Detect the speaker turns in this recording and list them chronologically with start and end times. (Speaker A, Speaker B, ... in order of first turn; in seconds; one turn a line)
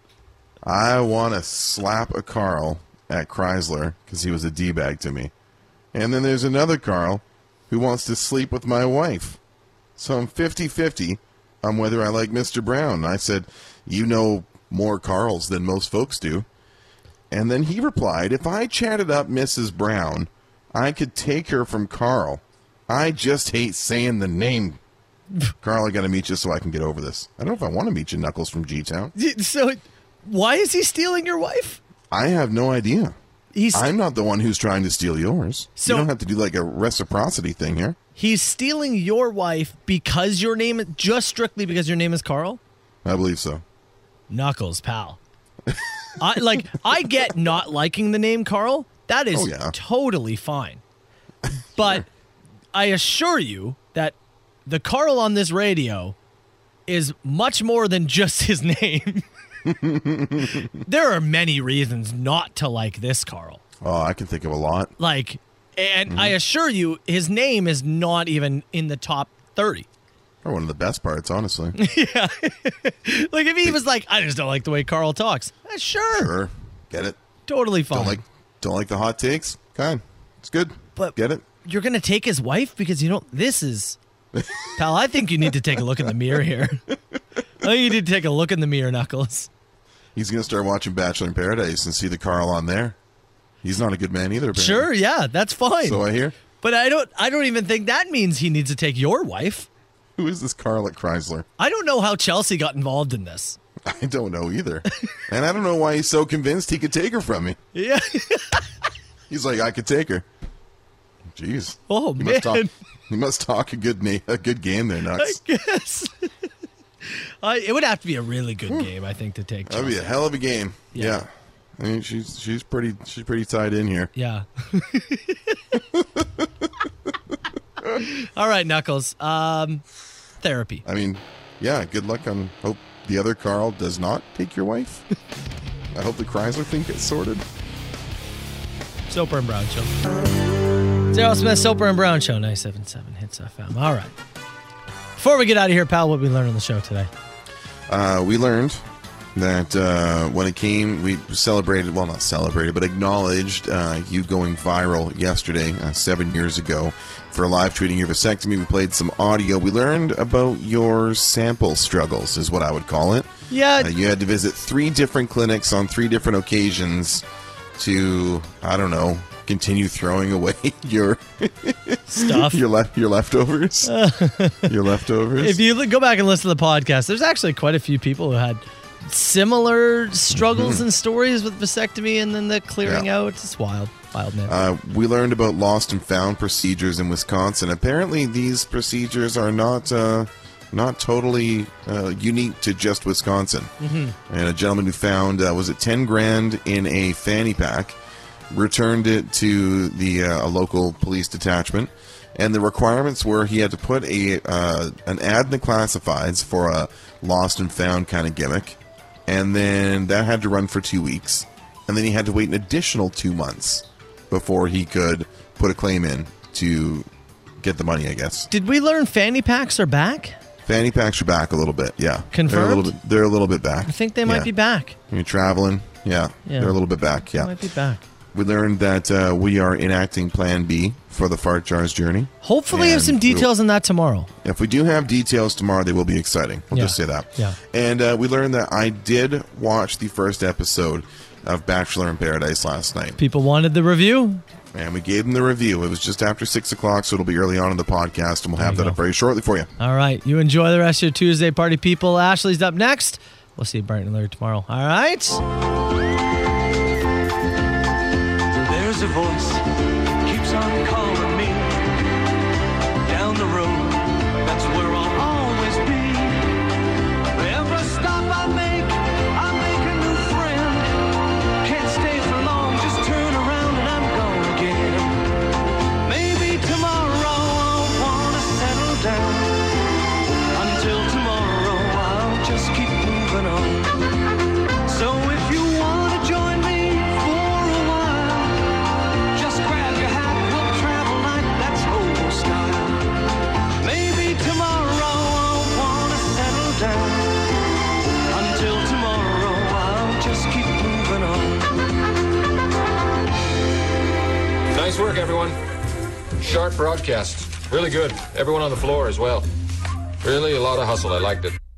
Speaker A: 0.6-5.3
Speaker A: 5.9-9.4
Speaker A: 10.0-16.5
Speaker A: 17.3-24.8
Speaker A: 25.6-29.1
Speaker B: 29.1-31.8
Speaker A: 32.1-33.1
Speaker B: 33.5-33.9
Speaker A: 33.7-38.0
Speaker B: 35.8-36.1
Speaker B: 38.2-42.6
Speaker A: 43.0-43.6
Speaker B: 44.3-45.2
Speaker A: 45.7-46.6
Speaker B: 46.2-50.8
Speaker A: 49.3-49.8
Speaker A: 51.8-52.0
Speaker B: 51.8-52.1
Speaker B: 52.7-56.2
Speaker B: 56.9-59.2
Speaker A: 59.7-60.7
Speaker B: 60.8-63.6
Speaker A: 63.8-64.9
Speaker B: 65.0-69.9
Speaker A: 66.1-66.3
Speaker A: 70.4-71.8
Speaker B: 71.8-76.3
Speaker A: 76.1-77.2
Speaker B: 77.5-78.2
Speaker A: 77.9-81.5
Speaker B: 81.0-84.0
Speaker A: 84.3-84.7
Speaker B: 84.8-86.8
Speaker B: 87.6-89.5
Speaker A: 90.2-93.0
Speaker A: 93.6-94.9
Speaker B: 94.5-96.0
Speaker A: 95.8-96.4
Speaker B: 96.6-99.7
Speaker A: 100.2-101.5
Speaker B: 101.6-103.6
Speaker A: 103.9-107.6
Speaker B: 107.8-108.7
Speaker A: 109.3-110.3
Speaker A: 111.3-115.4
Speaker B: 111.9-112.7
Speaker B: 115.2-116.3
Speaker B: 117.0-120.1
Speaker A: 119.7-124.1
Speaker B: 120.9-121.2
Speaker B: 124.2-125.6
Speaker A: 125.9-126.7
Speaker B: 127.9-129.8
Speaker B: 130.4-130.8
Speaker A: 130.8-135.0
Speaker A: 135.9-137.4
Speaker B: 139.1-139.9
Speaker B: 141.1-144.2
Speaker B: 145.2-147.1
Speaker A: 147.9-167.2
Speaker B: 163.5-163.9
Speaker A: 167.8-173.9
Speaker B: 172.1-172.6
Speaker B: 173.8-174.7
Speaker A: 174.7-175.6
Speaker B: 175.4-184.6
Speaker A: 180.3-180.8
Speaker A: 184.5-193.7
Speaker B: 193.8-194.2
Speaker A: 194.3-198.0
Speaker A: 198.5-217.1
Speaker A: 217.6-218.5
Speaker B: 218.5-220.4
Speaker A: 220.6-224.5
Speaker B: 222.3-223.0
Speaker B: 223.9-225.0
Speaker A: 225.1-227.5
Speaker B: 226.5-226.8
Speaker B: 227.3-228.0
Speaker A: 228.3-233.5
Speaker B: 232.4-234.3
Speaker A: 234.4-243.2
Speaker B: 236.7-237.6
Speaker B: 243.2-244.4
Speaker A: 244.7-249.7
Speaker B: 248.6-249.0
Speaker B: 249.8-255.4
Speaker C: 258.6-259.7
Speaker C: 260.2-261.8
Speaker C: 263.1-266.5
Speaker C: 267.3-271.1
Speaker C: 271.6-275.2
Speaker C: 276.1-279.6
Speaker C: 280.6-284.0
Speaker C: 284.9-288.6
Speaker C: 289.4-293.1
Speaker C: 293.8-297.4
Speaker C: 298.3-301.7
Speaker D: 304.7-305.6
Speaker D: 306.4-309.5
Speaker D: 310.2-311.6